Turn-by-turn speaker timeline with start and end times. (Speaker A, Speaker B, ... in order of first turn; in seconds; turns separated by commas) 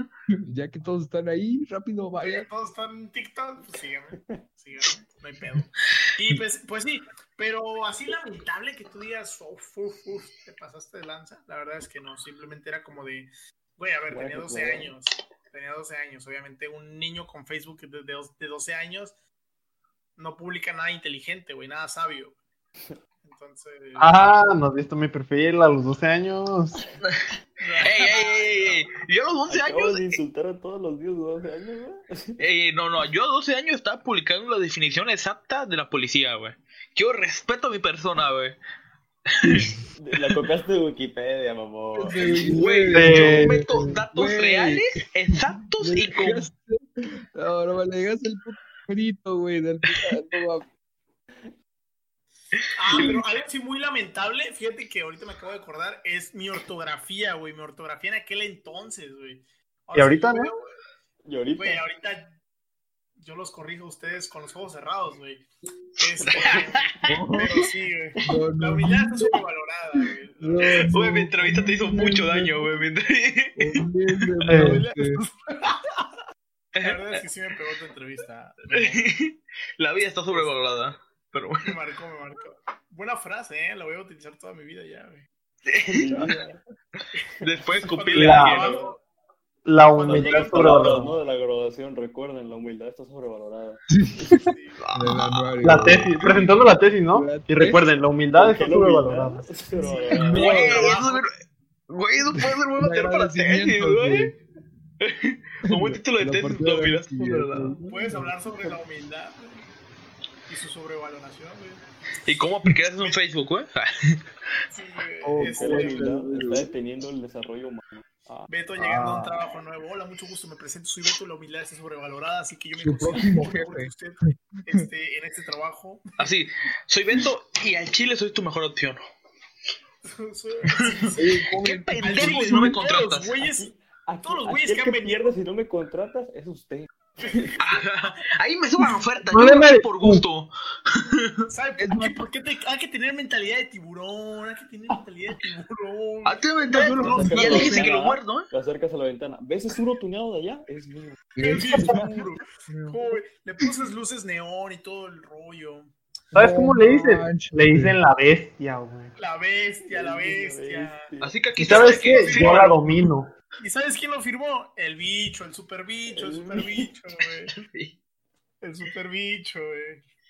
Speaker A: 0.3-2.5, Speaker B: 2.2-19.2, Speaker C: 14.1-14.9, Speaker B: 20.2-22.4, Speaker B: 23.2-24.3, Speaker D: 24.0-26.8, Speaker E: 27.0-30.2, Speaker B: 27.6-28.8, Speaker C: 29.5-32.4, Speaker E: 32.4-38.6, Speaker E: 39.4-39.7, Speaker A: 39.4-39.8, Speaker C: 40.0-42.6, Speaker A: 42.0-43.6, Speaker E: 42.5-46.5, Speaker D: 42.9-44.0, Speaker A: 44.1-50.6, Speaker E: 52.6-53.2, Speaker B: 52.8-60.7, Speaker D: 59.9-60.5, Speaker C: 61.2-61.8, Speaker B: 61.5-62.3, Speaker B: 63.2-65.5, Speaker B: 66.0-70.9, Speaker E: 66.1-66.8, Speaker C: 66.3-66.6, Speaker A: 67.1-67.7, Speaker A: 68.2-69.3, Speaker A: 70.4-72.8, Speaker E: 70.9-73.8, Speaker A: 73.6-75.2, Speaker D: 74.5-74.8, Speaker B: 74.5-75.9, Speaker E: 76.8-77.2, Speaker B: 76.8-79.0, Speaker E: 78.7-81.8, Speaker B: 81.6-85.3, Speaker E: 85.7-86.3, Speaker C: 85.9-86.6, Speaker B: 87.1-89.0, Speaker E: 87.4-89.0, Speaker D: 88.1-88.6, Speaker C: 88.4-88.7, Speaker D: 89.7-91.2, Speaker B: 89.9-91.0, Speaker C: 90.1-94.3, Speaker A: 93.9-94.3, Speaker B: 94.3-94.8, Speaker E: 94.8-95.8, Speaker A: 94.9-97.9, Speaker D: 95.6-99.5, Speaker C: 98.3-100.7, Speaker B: 99.8-101.2, Speaker A: 100.2-101.0, Speaker E: 100.2-101.3, Speaker E: 101.9-104.3, Speaker A: 102.8-104.3, Speaker E: 105.0-107.8, Speaker A: 106.2-108.3, Speaker B: 107.8-109.7, Speaker B: 110.5-111.8, Speaker E: 112.2-114.2, Speaker B: 114.7-116.2, Speaker A: 115.2-116.7, Speaker C: 115.4-118.5, Speaker B: 118.5-126.3, Speaker A: 118.8-119.4, Speaker A: 122.8-123.9, Speaker E: 126.2-129.0, Speaker B: 130.0-131.4, Speaker E: 130.7-133.4, Speaker A: 131.1-132.8, Speaker B: 132.0-133.7, Speaker C: 133.4-137.6, Speaker B: 134.2-135.4, Speaker B: 137.2-137.8, Speaker E: 137.6-141.4, Speaker D: 139.2-140.2, Speaker B: 141.5-148.0, Speaker A: 141.8-142.2, Speaker E: 146.2-148.5, Speaker C: 146.9-151.3, Speaker A: 147.4-147.8, Speaker A: 151.3-152.2, Speaker B: 151.4-155.9, Speaker A: 156.3-158.0, Speaker D: 156.3-159.1, Speaker B: 159.2-161.1, Speaker C: 159.8-161.3, Speaker E: 161.2-162.8, Speaker D: 161.6-163.3, Speaker B: 161.7-162.8, Speaker B: 163.6-167.5, Speaker C: 166.1-166.9, Speaker E: 167.5-167.9, Speaker B: 168.6-170.0